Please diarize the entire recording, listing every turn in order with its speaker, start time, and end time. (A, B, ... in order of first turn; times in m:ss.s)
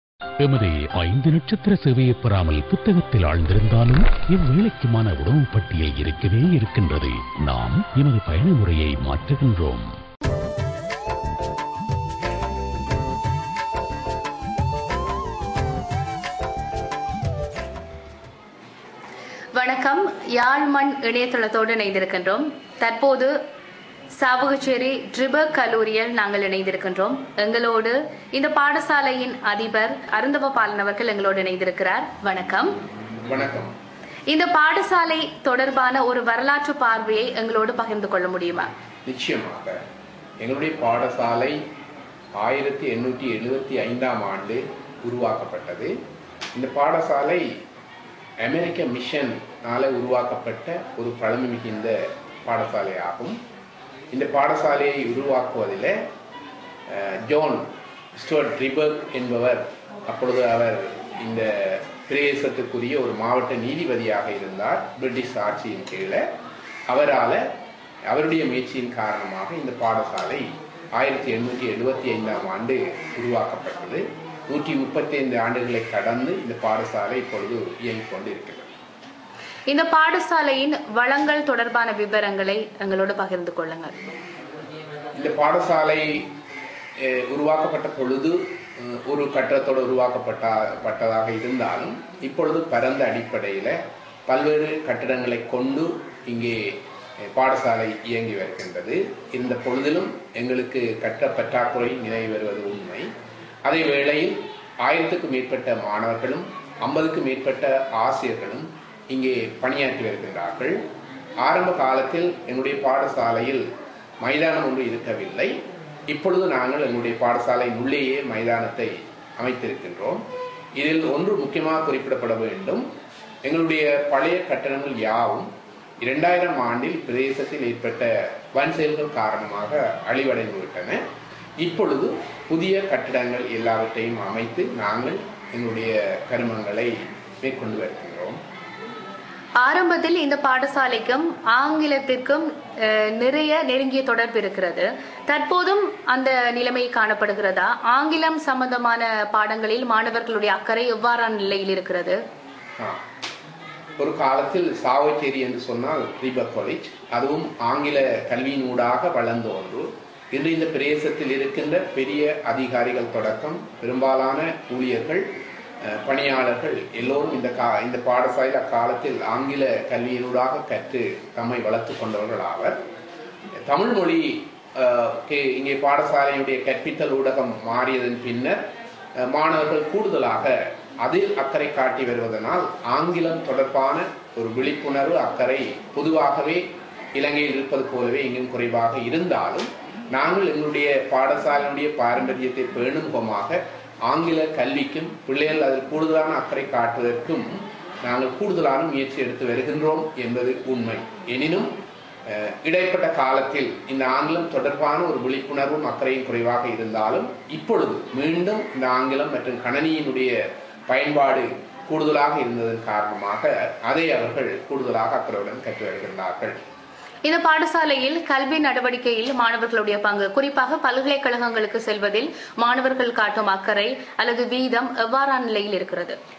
0:00.4-0:09.9 A
0:19.5-0:23.3 B
0:24.1-0:32.7 B
0:33.3-0:33.7 C
0:34.3-0:38.7 B
0:39.0-0:39.8 C
0:40.4-0:41.6 C
0:42.4-0:45.9 C
0:46.5-0:47.4 C
0:48.4-0:53.4 C
0:54.1-0:56.0 C
0:56.9-0:57.6 C
0:58.2-1:06.2 C
1:06.9-1:07.4 C
1:08.1-1:18.7 C
1:19.7-1:23.9 B
1:25.2-1:26.1 C
1:27.0-1:33.8 C
1:34.3-1:36.7 C
1:37.3-1:43.0 C
1:43.6-1:50.8 C
1:51.4-1:53.6 C
1:54.2-1:55.5 C
1:56.1-2:00.2 C
2:00.8-2:02.8 C
2:03.4-2:05.5 C
2:06.0-2:11.0 C
2:11.6-2:18.4 C
2:19.6-2:32.2 B
2:34.0-2:45.2 C
2:45.8-2:52.8 C
2:53.6-2:58.6 C
2:59.2-3:00.5 C
3:01.0-3:06.6 C
3:07.2-3:21.7 C
3:22.3-3:30.3 C
3:30.9-3:36.6 C
3:37.2-3:46.2 B